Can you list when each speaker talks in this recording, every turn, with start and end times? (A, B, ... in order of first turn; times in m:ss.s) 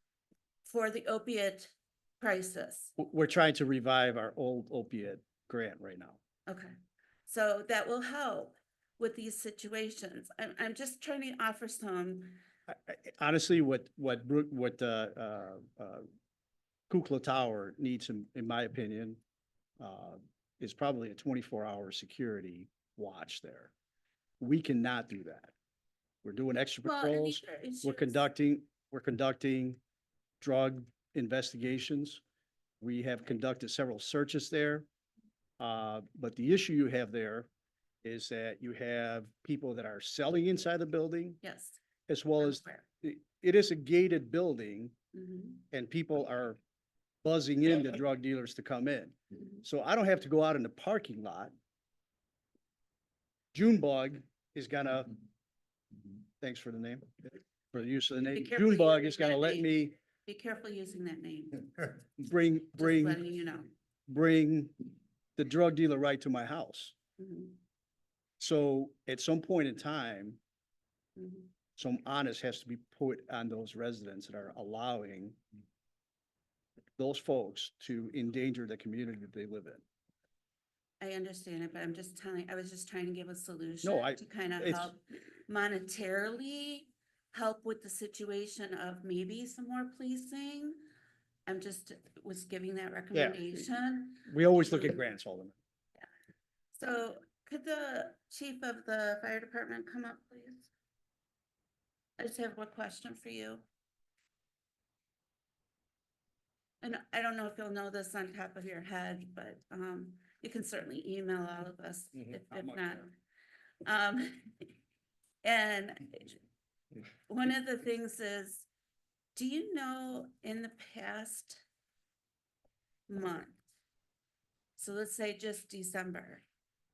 0:00.6-0:02.9 A
0:03.0-0:06.2 B
0:06.5-0:06.7 A
0:07.3-0:12.4 A
0:12.7-0:16.0 B
0:16.9-0:19.2 B
0:19.8-0:23.7 B
0:24.4-0:25.5 B
0:26.2-0:29.8 B
0:26.8-0:28.2 A
0:30.4-0:32.2 B
0:32.8-0:34.9 B
0:35.6-0:37.5 B
0:38.0-0:41.4 B
0:41.4-0:41.8 A
0:42.1-0:44.9 B
0:42.4-0:42.8 A
0:45.1-0:45.6 A
0:45.7-0:46.6 B
0:47.2-0:51.5 B
0:53.5-0:55.1 B
0:56.4-1:00.0 B
0:58.3-1:01.7 A
1:02.2-1:03.2 B
1:02.7-1:03.7 A
1:04.1-1:04.8 B
1:05.4-1:07.0 B
1:07.2-1:07.6 A
1:08.4-1:10.4 B
1:11.2-1:11.5 A
1:11.8-1:15.4 B
1:17.0-1:19.8 B
1:21.0-1:30.8 A
1:23.8-1:24.9 B
1:31.5-1:35.0 A
1:33.1-1:33.5 B
1:34.3-1:35.6 B
1:36.7-1:40.7 A
1:42.2-1:43.7 A
1:46.8-1:53.1 A
1:52.5-1:52.8 B
1:53.8-1:54.7 A
1:55.4-1:56.4 A
1:57.3-1:58.7 A
1:59.4-2:01.6 A
2:03.1-2:03.6 A
2:04.8-2:06.4 A